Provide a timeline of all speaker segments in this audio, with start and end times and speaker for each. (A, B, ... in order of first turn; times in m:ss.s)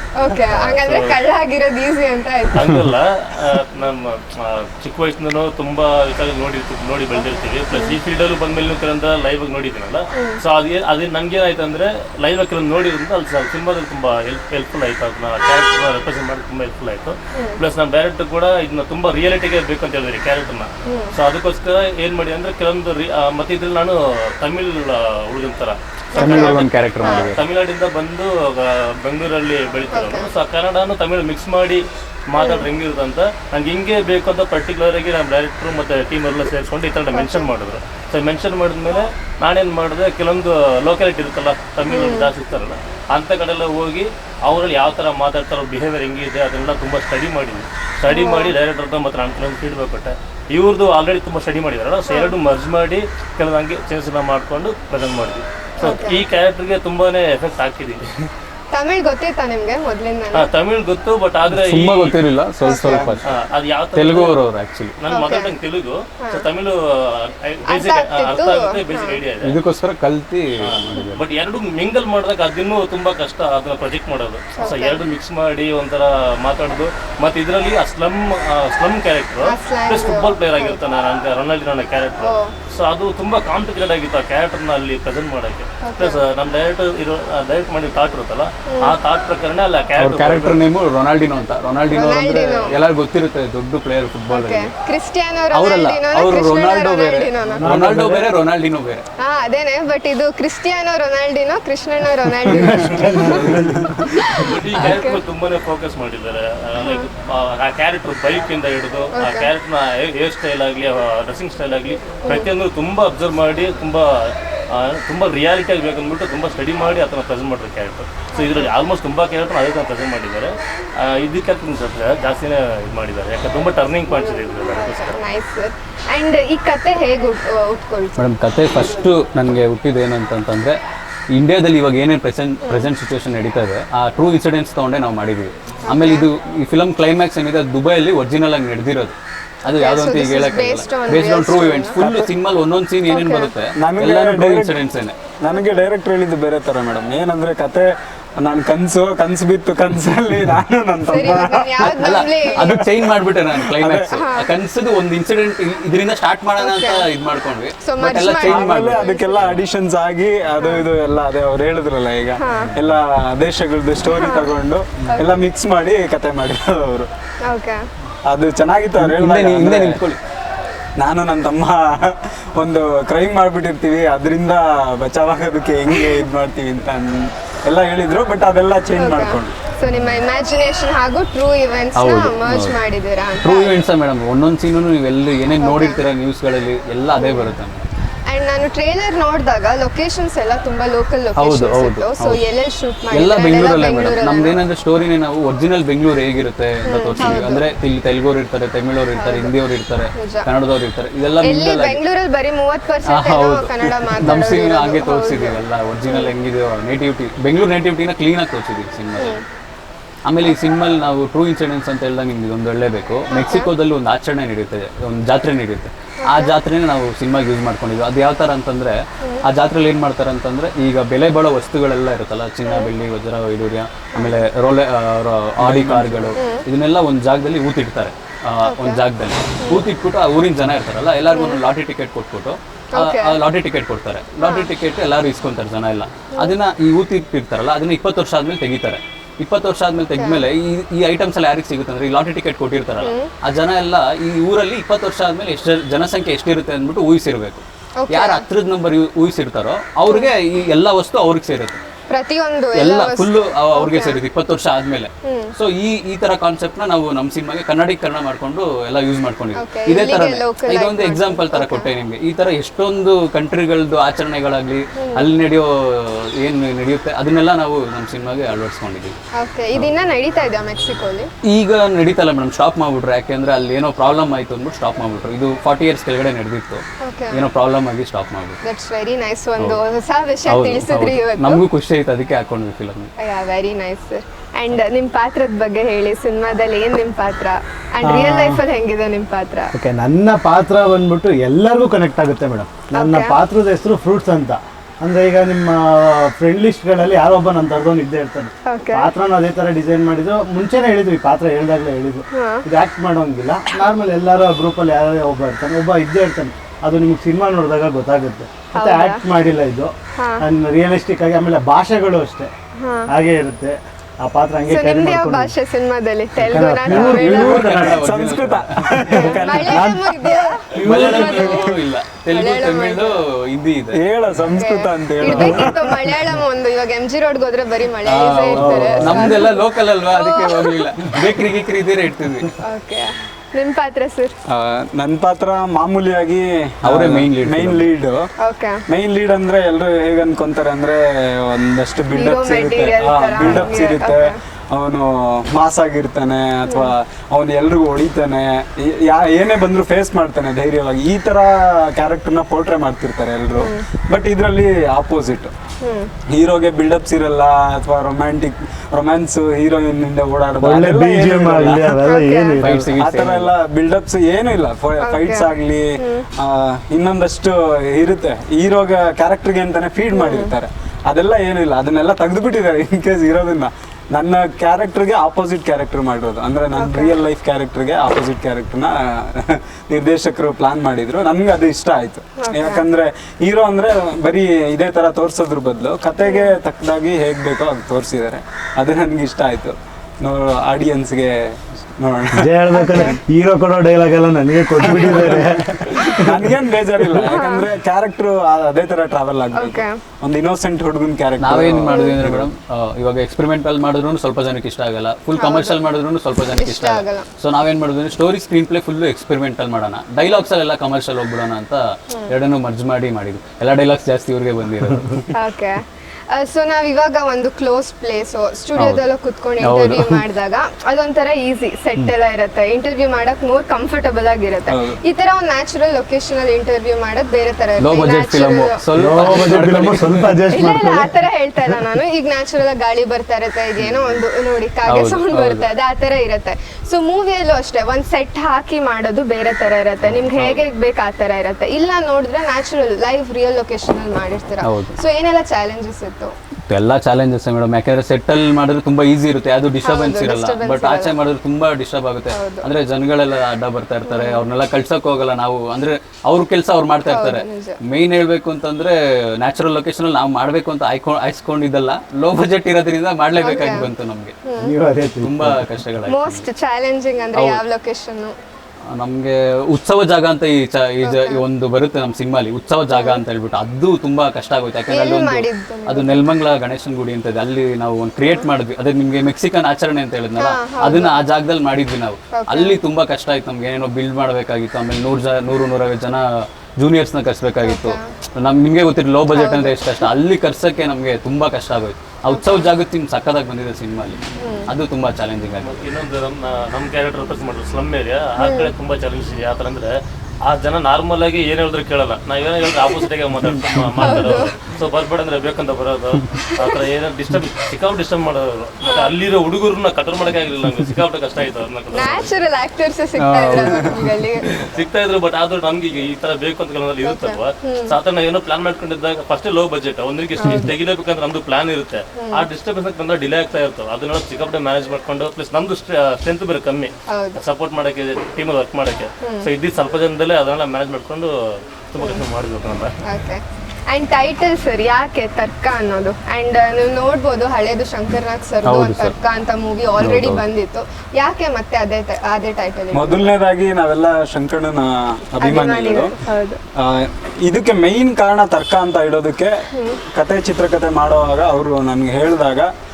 0:00.2-0:02.8 A
0:00.4-0:01.2 B
0:02.5-0:58.3 B
0:10.1-0:10.4 A
0:17.3-0:17.6 A
0:20.8-0:21.1 A
0:26.1-0:27.3 A
0:26.2-0:27.4 C
0:26.2-0:26.5 D
0:29.9-0:30.3 A
0:32.4-0:32.6 A
0:37.1-0:37.5 A
0:41.9-0:42.3 A
0:48.1-0:48.5 A
0:52.1-0:52.3 A
0:55.8-0:56.2 A
0:58.7-1:00.5 A
1:00.3-1:02.2 B
1:01.5-1:03.3 C
1:02.6-1:03.2 A
1:02.8-1:04.4 B
1:03.9-1:05.0 C
1:05.0-1:09.6 B
1:05.1-1:05.5 A
1:06.2-1:06.4 A
1:07.7-1:09.2 A
1:09.4-1:11.2 C
1:10.6-1:30.6 B
1:14.6-1:15.0 A
1:19.4-1:20.8 A
1:22.2-1:22.5 A
1:25.8-1:26.2 A
1:30.0-1:34.7 C
1:31.9-1:32.8 A
1:34.3-1:37.7 A
1:35.5-1:36.4 C
1:36.1-1:37.3 D
1:37.6-1:38.3 E
1:37.6-1:39.0 C
1:39.2-1:43.5 A
1:42.5-1:44.3 E
1:42.6-1:44.0 D
1:44.1-1:45.2 A
1:44.2-2:05.2 B
1:46.8-1:47.1 A
1:49.1-1:49.5 A
1:58.3-1:58.7 A
2:04.8-2:08.2 A
2:08.2-2:10.8 C
2:11.3-2:25.1 C
2:15.9-2:16.2 A
2:19.7-2:22.0 A
2:22.0-2:22.3 D
2:23.1-2:23.5 A
2:23.8-2:24.8 D
2:25.4-2:34.1 D
2:31.1-2:32.8 A
2:31.8-2:39.4 C
2:34.1-2:34.5 A
2:36.6-2:37.1 A
2:37.8-2:39.5 A
2:38.4-2:47.1 D
2:40.6-2:40.8 A
2:42.4-2:42.8 A
2:44.1-2:44.5 A
2:45.1-2:45.4 A
2:47.4-2:47.8 A
2:48.3-2:50.0 D
2:49.0-2:50.2 C
2:51.0-2:59.5 D
2:55.9-2:56.2 A
2:59.0-3:03.7 A
3:01.9-3:02.8 C
3:03.4-3:07.9 C
3:05.6-3:06.0 A
3:07.2-3:07.5 A
3:08.3-3:14.6 A
3:11.3-3:12.4 C
3:13.1-3:22.0 C
3:16.8-3:17.6 A
3:19.1-3:19.5 A
3:20.1-3:20.5 A
3:21.4-3:26.3 A
3:23.0-3:29.4 C
3:29.2-3:29.4 A
3:30.2-4:11.8 C
3:33.3-3:33.7 A
3:36.2-3:36.6 A
3:42.6-3:42.9 A
3:44.1-3:44.5 A
3:45.6-3:46.4 D
3:46.4-3:46.6 A
3:48.6-3:49.0 A
3:49.6-3:49.8 A
3:51.3-3:51.6 A
3:52.9-3:53.4 A
3:54.4-3:54.7 A
4:00.2-4:00.4 A
4:03.0-4:03.3 A
4:08.0-4:08.4 A
4:10.0-4:10.3 A
4:12.1-4:14.2 A
4:12.7-4:29.1 C
4:15.2-4:15.5 A
4:19.6-4:21.9 A
4:25.0-4:25.3 A
4:29.3-4:31.3 A
4:31.4-4:38.6 C
4:37.0-4:37.5 A
4:38.6-4:41.6 A
4:40.5-4:43.1 C
4:43.2-4:49.7 A
4:48.0-4:48.6 E
4:49.7-5:12.5 E
4:52.9-4:53.4 A
4:58.6-4:59.1 A
5:02.3-5:02.6 A
5:08.7-5:09.2 A
5:10.2-5:10.4 A
5:12.8-5:13.1 A
5:13.1-5:15.5 E
5:14.6-5:17.7 A
5:16.5-5:18.0 E
5:16.9-5:19.0 C
5:17.1-5:20.0 D
5:19.1-5:23.2 A
5:19.2-5:21.6 E
5:20.7-5:24.0 C
5:23.9-5:26.1 D
5:24.4-5:31.0 A
5:25.3-5:25.7 C
5:28.0-5:32.6 C
5:28.7-5:29.4 E
5:32.6-5:34.3 A
5:34.5-5:38.3 D
5:36.8-5:37.9 C
5:38.4-5:38.8 A
5:38.9-5:55.5 D
5:42.1-5:44.4 A
5:53.6-5:53.8 A
5:55.8-5:56.1 A
5:56.3-6:02.0 D
6:00.6-6:02.9 E
6:02.0-6:02.6 A
6:02.6-6:03.5 C
6:03.0-6:33.0 D
6:05.0-6:06.2 A
6:10.1-6:10.5 A
6:16.8-6:17.1 A
6:22.4-6:22.8 A
6:26.2-6:26.5 A
6:32.3-6:36.5 E
6:32.7-6:33.2 A
6:34.9-6:42.5 D
6:37.2-6:37.6 A
6:39.5-6:39.9 A
6:41.4-6:55.3 C
6:41.9-6:42.2 A
6:45.4-6:45.8 A
6:46.5-6:47.3 A
6:55.3-7:08.8 A
6:58.8-6:59.0 C
6:59.6-7:00.2 C
7:04.7-7:05.0 D
7:07.8-7:10.4 C
7:08.9-7:11.1 E
7:10.5-7:26.3 A
7:14.8-7:15.7 C
7:24.6-7:25.0 C
7:26.7-7:44.3 C
7:29.8-7:31.2 A
7:32.3-7:32.6 A
7:34.0-7:34.4 A
7:37.1-7:37.8 A
7:43.4-7:43.9 A
7:44.4-7:44.8 A
7:44.6-7:45.6 E
7:45.2-7:46.5 C
7:46.1-7:48.4 A
7:47.3-7:47.6 C
7:48.9-8:15.8 C
7:51.0-7:51.4 A
7:52.9-7:53.2 A
7:54.9-7:56.2 A
8:00.4-8:01.2 A
8:02.3-8:02.8 A
8:07.6-8:08.1 A
8:09.3-8:09.8 A
8:12.3-8:12.6 A
8:14.4-8:14.7 A
8:15.6-8:19.9 B
8:18.4-8:18.7 A
8:20.4-8:32.3 B
8:24.0-8:24.6 A
8:28.8-8:29.1 A
8:31.9-8:34.4 A
8:33.2-8:34.1 C
8:34.6-8:52.9 B
8:37.0-8:37.9 A
8:40.4-8:40.7 A
8:42.2-8:42.4 A
8:47.1-8:47.4 A
8:49.2-8:49.5 A
8:53.0-9:03.3 A
8:58.6-8:59.1 C
9:00.0-9:00.4 C
9:02.9-9:06.2 D
9:05.4-9:06.6 A
9:06.8-9:12.7 D
9:09.7-9:10.0 A